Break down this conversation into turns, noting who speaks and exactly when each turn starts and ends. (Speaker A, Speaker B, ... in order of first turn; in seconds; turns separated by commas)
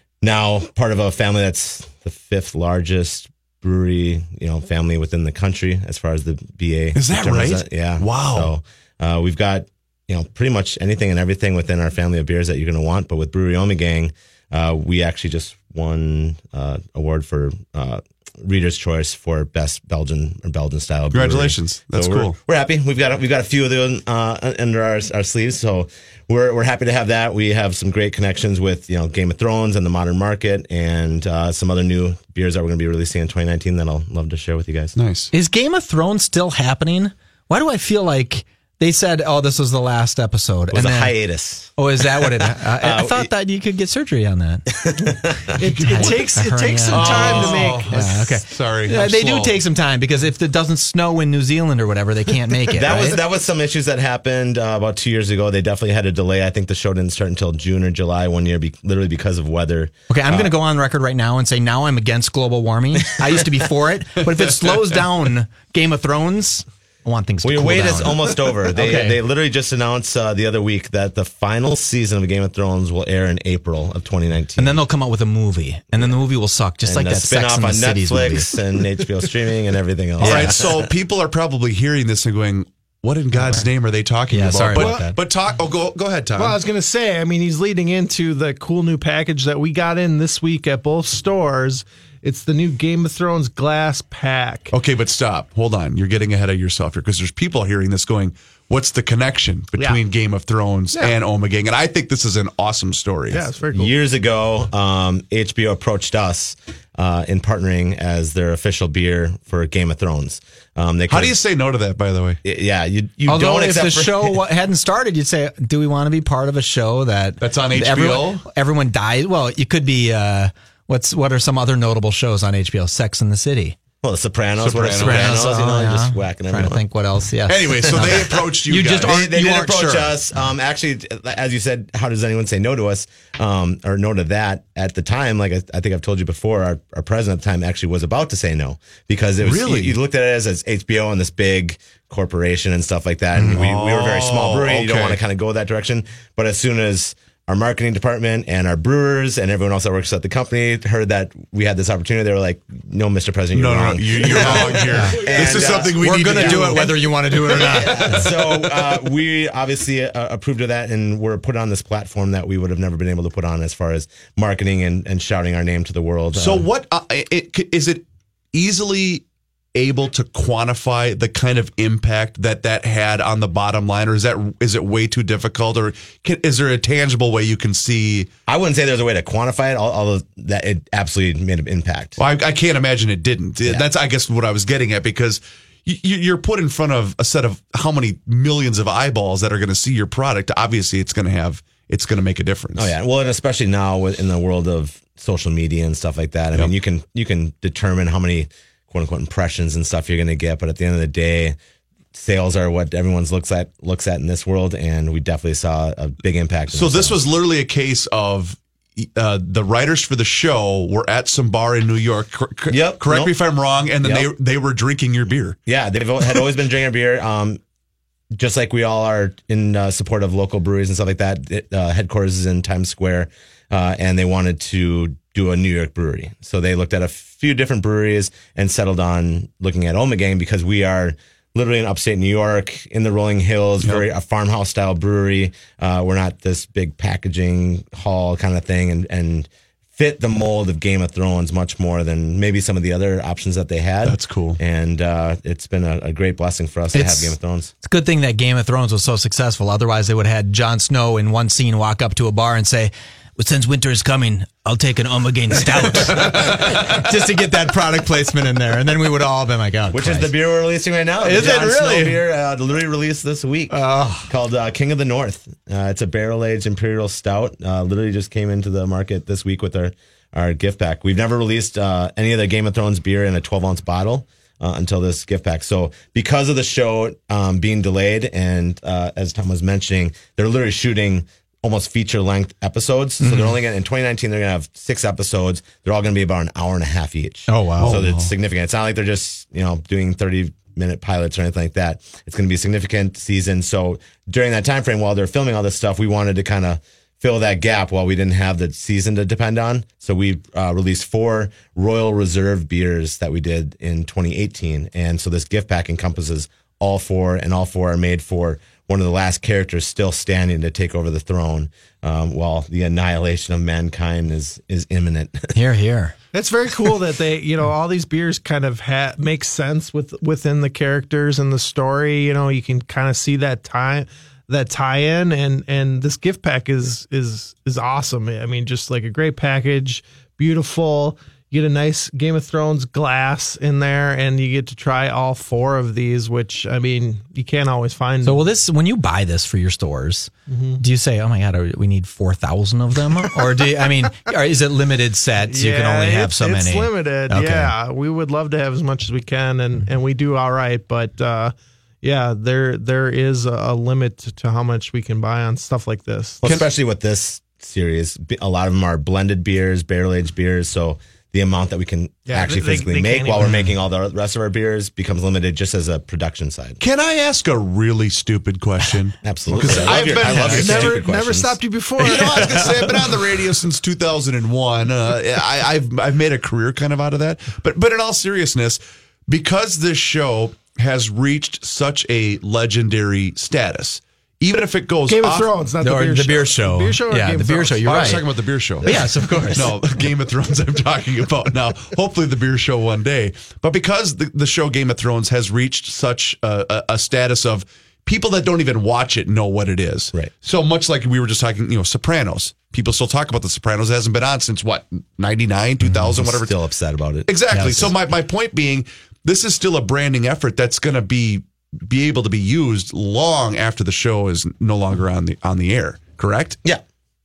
Speaker A: 0.2-35.0, Speaker B: 7.0-8.5, Speaker B: 21.1-22.4, Speaker B: 35.0-35.3, Speaker C: 35.3-41.2, Speaker A: 40.7-43.3, Speaker C: 41.8-44.7, Speaker A: 44.8-45.5, Speaker D: 45.6-48.1, Speaker B: 45.6-46.4, Speaker C: 45.9-53.2, Speaker B: 46.9-49.6, Speaker A: 52.7-60.5, Speaker C: 60.1-69.2, Speaker A: 67.4-74.8, Speaker C: 74.6-78.5, Speaker A: 76.8-80.9, Speaker B: 80.2-86.6, Speaker C: 80.2-80.5, Speaker C: 83.3-83.7, Speaker C: 84.3-85.2, Speaker D: 84.7-85.1, Speaker D: 86.4-94.7, Speaker B: 94.7-103.5, Speaker D: 103.3-103.9, Speaker A: 103.7-111.4, Speaker B: 111.1-112.4, Speaker A: 112.4-114.4, Speaker C: 113.3-123.8, Speaker B: 117.4-118.5, Speaker A: 124.0-126.8, Speaker B: 124.6-125.4, Speaker C: 125.0-130.2, Speaker B: 127.5-129.2, Speaker A: 127.9-128.5, Speaker A: 129.0-166.7, Speaker B: 139.4-140.0, Speaker B: 143.3-145.2, Speaker B: 153.6-156.9, Speaker C: 154.8-155.2, Speaker C: 155.7-158.3, Speaker B: 166.4-169.2, Speaker B: 169.8-178.3, Speaker A: 178.5-182.2, Speaker B: 182.2-192.9, Speaker A: 192.8-201.6, Speaker A: 202.1-207.2, Speaker B: 206.7-215.6, Speaker A: 212.7-213.4, Speaker A: 214.0-214.3, Speaker A: 215.7-217.6, Speaker A: 218.3-247.7, Speaker B: 244.0-244.6, Speaker C: 246.9-260.3, Speaker B: 256.2-256.9, Speaker A: 259.9-315.6, Speaker C: 261.2-262.2, Speaker C: 263.7-264.3, Speaker C: 283.2-283.6, Speaker C: 287.5-288.0, Speaker B: 287.8-288.3, Speaker C: 315.6-316.1, Speaker D: 316.3-338.4, Speaker C: 338.2-347.7, Speaker D: 340.5-340.8, Speaker D: 345.5-356.4, Speaker A: 356.4-366.8, Speaker D: 362.3-363.6, Speaker B: 366.8-371.0, Speaker A: 369.2-371.6, Speaker D: 369.7-373.2, Speaker C: 370.3-370.6, Speaker B: 372.0-385.5, Speaker D: 385.1-388.2, Speaker C: 385.8-388.2, Speaker B: 387.9-388.9, Speaker C: 388.8-389.8, Speaker D: 388.9-389.7, Speaker B: 389.5-406.5, Speaker A: 405.9-407.9, Speaker B: 407.3-416.6, Speaker C: 407.5-407.9